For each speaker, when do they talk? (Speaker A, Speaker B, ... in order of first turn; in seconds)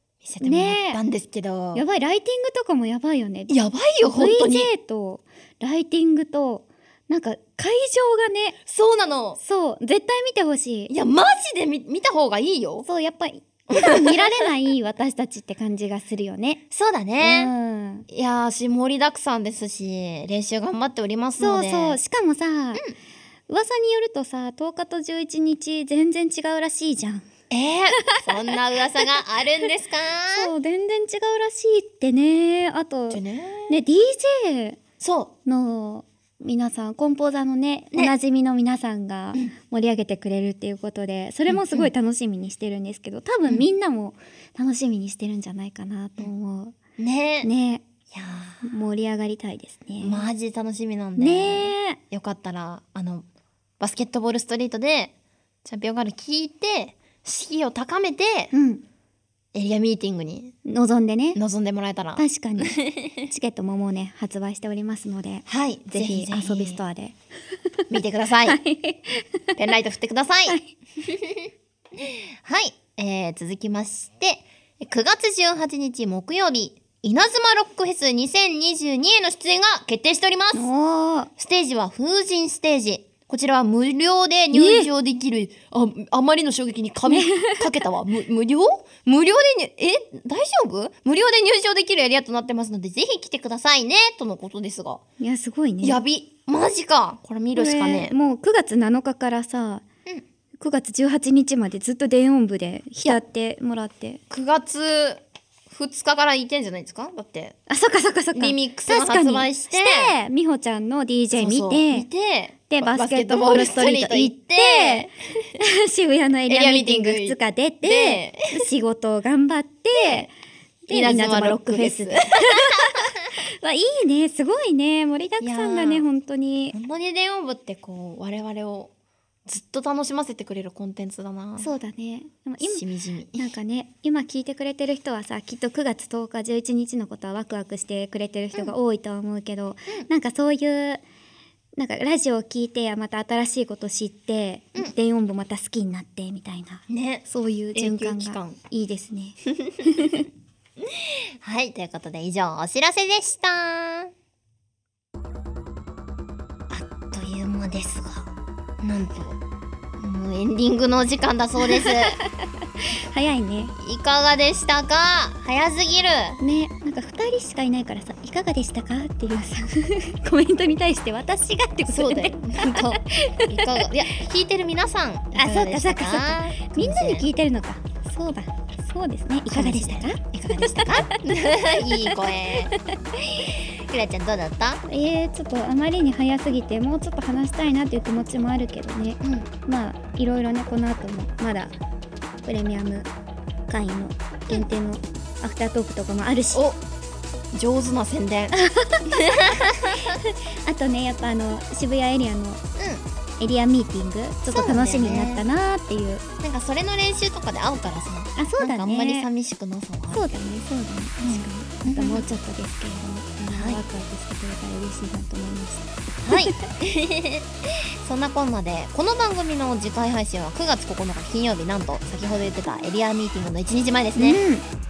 Speaker A: 0.2-1.8, 3.5-4.7, 8.7-9.4, 10.9-12.8, 13.7-14.4, 16.7-17.5, 18.1-22.0, 27.5-30.5, 33.1-33.8, 35.0-35.3, 41.5-41.9, 47.0-47.5, 48.1-48.7, 50.0-53.2, 53.8-55.1, 55.6-58.5, 59.5-60.5, 61.3-63.2, 65.5-66.8, 67.9-68.6, 69.5-80.7, 81.4-95.0, 95.8-98.2, 104.3-107.6, 108.3-110.1, 111.3-115.1, 116.5-118.7, 120.0-120.3, 120.9-123.1, 125.4-126.0, 126.7-128.9, 129.4-131.7, 132.6-133.5, 146.9-148.6, 150.8-154.1, 156.7-158.3, 158.8-159.4, 160.0-162.2, 163.8-166.4, 171.9-177.3, 179.5-182.8, 183.4-184.8, 189.2-189.5, 196.5-196.8, 197.5-200.2, 202.8-203.0, 204.5-205.4, 206.4-210.2, 211.2-212.3, 213.5-213.8, 216.2-224.4
Speaker B: 0.4-1.0, 1.7-8.6, 9.4-10.9, 12.8-16.6, 17.2-18.1, 21.4-22.8, 23.5-27.3, 28.0-28.4, 30.3-34.8, 35.5-46.8, 47.4-47.8, 48.6-50.3, 51.2-52.0, 58.5-58.8, 60.6-61.4, 62.2-67.2, 68.5-69.5, 80.5-81.3, 84.5-84.9, 87.1-87.7, 95.2-96.0, 97.5-99.8, 100.6-104.2, 107.7-112.1, 112.7-120.3, 120.8-126.8, 131.6-132.8, 133.3-141.0, 141.8-150.2, 161.8-162.1, 162.8-163.7, 166.4-173.9, 175.3-181.3, 181.9-183.3, 184.9-191.7, 192.4-193.1, 193.7-196.6, 198.5-199.4, 200.2-202.6, 203.4-206.2, 208.4-209.3, 210.1-216.6, 224.2-224.7